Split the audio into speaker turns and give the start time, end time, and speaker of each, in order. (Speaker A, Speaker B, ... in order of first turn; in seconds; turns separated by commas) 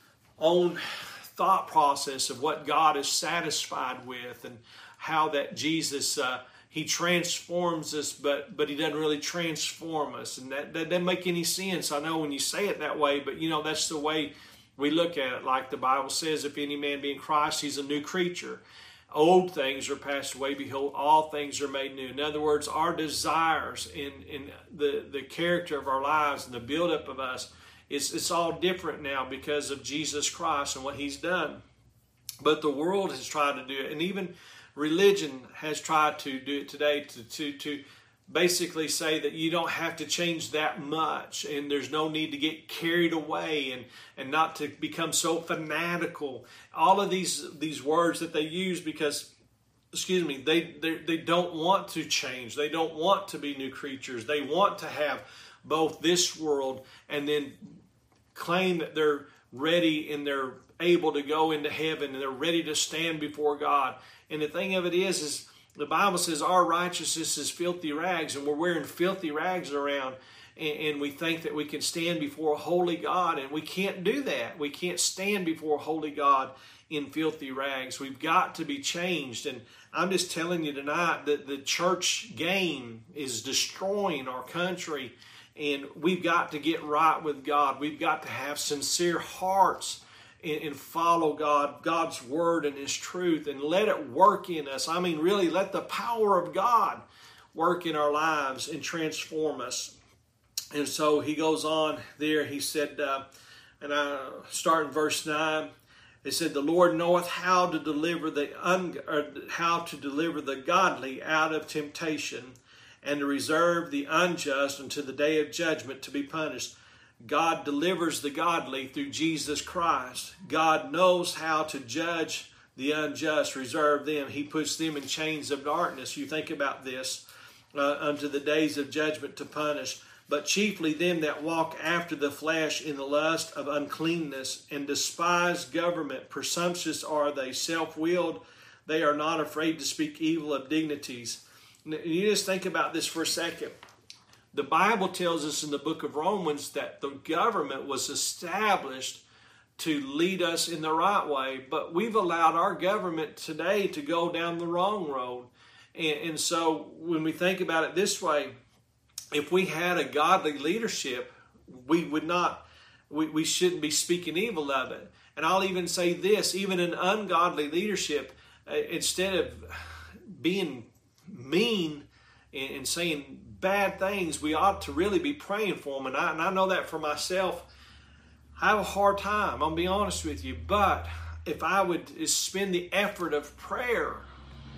Speaker A: 0.4-31.6, Speaker A: 32.4-49.3, Speaker A: 49.9-57.8, Speaker A: 58.3-97.0, Speaker A: 97.5-99.9, Speaker A: 100.7-103.2, Speaker A: 103.8-105.7, Speaker A: 106.2-143.8, Speaker A: 144.5-149.2, Speaker A: 149.8-158.5, Speaker A: 159.3-177.7, Speaker A: 178.6-184.3